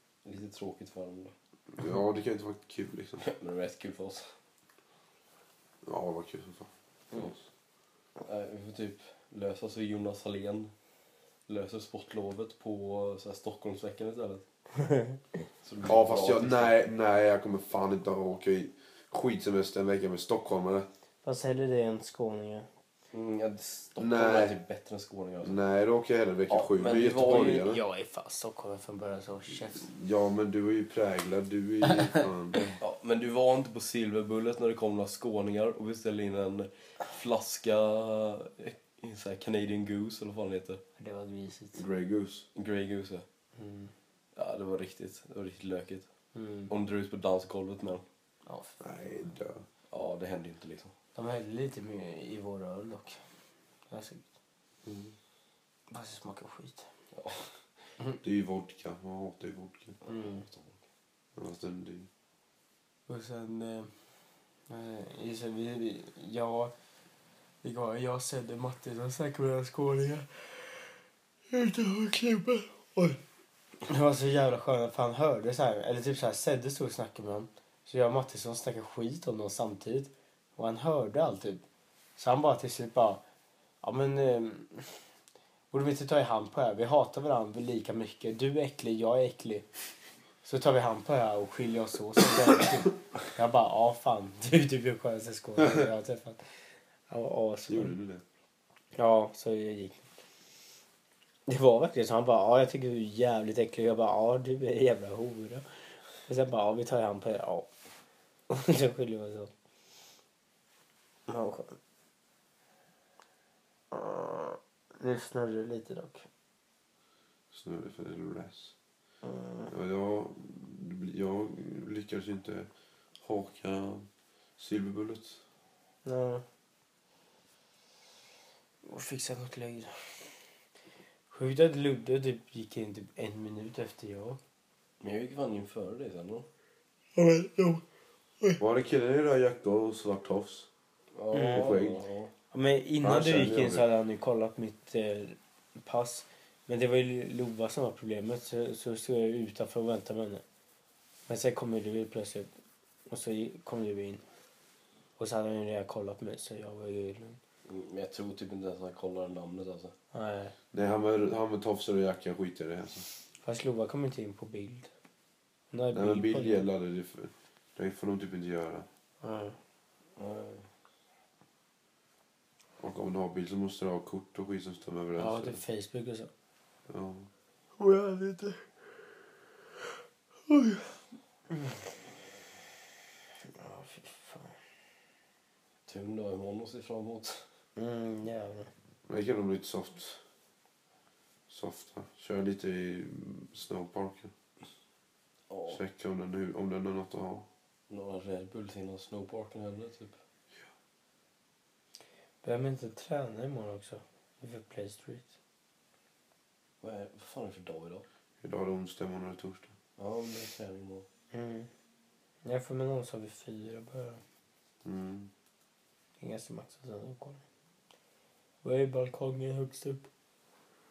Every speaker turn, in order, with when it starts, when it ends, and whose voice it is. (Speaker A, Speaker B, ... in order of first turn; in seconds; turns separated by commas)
Speaker A: 0.2-1.3, Speaker B: 1.8-3.2, Speaker A: 3.2-4.3, Speaker B: 5.8-7.4, Speaker A: 8.2-10.7, Speaker A: 11.5-14.4, Speaker C: 14.8-15.2, Speaker A: 15.6-16.9, Speaker B: 15.8-20.9, Speaker C: 21.2-22.7, Speaker A: 23.1-25.6, Speaker B: 24.0-24.6, Speaker B: 25.4-27.8, Speaker A: 26.5-27.7, Speaker C: 27.3-29.9, Speaker B: 29.8-32.8, Speaker A: 32.8-40.8, Speaker C: 41.0-41.8, Speaker B: 41.7-42.5, Speaker A: 42.5-43.2, Speaker C: 43.5-43.9, Speaker A: 44.3-46.1, Speaker C: 46.3-46.7, Speaker A: 46.7-48.0, Speaker C: 48.5-48.8, Speaker B: 48.8-49.6, Speaker A: 49.9-50.9, Speaker C: 51.1-53.2, Speaker C: 53.9-54.2, Speaker B: 54.8-55.1, Speaker C: 55.9-56.9, Speaker A: 57.1-57.5, Speaker B: 58.2-60.0, Speaker A: 60.0-60.8, Speaker C: 60.0-60.5, Speaker B: 61.4-62.1, Speaker C: 63.1-63.9, Speaker C: 64.7-66.7, Speaker C: 67.6-70.8, Speaker C: 71.5-73.2, Speaker C: 73.8-81.6, Speaker C: 82.2-83.2, Speaker C: 83.8-85.0, Speaker C: 85.7-89.7, Speaker C: 90.4-96.4, Speaker C: 97.1-97.9, Speaker B: 97.7-98.2, Speaker C: 99.0-100.1, Speaker C: 101.5-105.7, Speaker C: 106.2-107.7, Speaker C: 108.5-109.5, Speaker C: 111.3-111.8, Speaker C: 113.9-116.2, Speaker B: 117.5-118.7, Speaker C: 119.2-119.7, Speaker B: 119.7-122.7, Speaker B: 123.2-124.0, Speaker B: 124.6-125.4, Speaker C: 126.0-126.4, Speaker C: 128.8-129.9, Speaker C: 131.3-134.4, Speaker A: 135.0-136.5, Speaker C: 137.2-137.8, Speaker B: 138.6-140.7, Speaker A: 141.1-142.3, Speaker C: 141.3-141.8, Speaker B: 141.4-142.0, Speaker C: 142.5-150.4, Speaker B: 143.0-143.9, Speaker C: 151.3-152.5, Speaker C: 153.1-154.2, Speaker C: 155.2-157.4, Speaker A: 157.7-159.9, Speaker C: 160.1-160.5, Speaker B: 160.7-163.0, Speaker C: 163.4-164.9, Speaker C: 165.7-166.7, Speaker B: 165.9-168.8, Speaker C: 169.2-169.6, Speaker A: 170.2-170.7, Speaker B: 172.8-175.6, Speaker C: 175.2-176.3, Speaker B: 176.9-177.3, Speaker C: 177.8-178.7, Speaker C: 180.5-180.9, Speaker C: 181.5-181.8, Speaker C: 183.4-184.5, Speaker A: 185.9-187.4, Speaker C: 187.8-188.7, Speaker B: 189.1-190.2, Speaker B: 191.5-194.3, Speaker A: 195.5-195.8, Speaker B: 195.7-197.4, Speaker A: 197.9-200.2, Speaker C: 202.4-205.3, Speaker A: 206.8-208.1, Speaker B: 208.4-209.7, Speaker A: 210.0-211.1, Speaker C: 211.3-211.7, Speaker C: 212.4-214.2, Speaker B: 214.8-215.3, Speaker C: 216.2-217.4, Speaker C: 218.6-220.1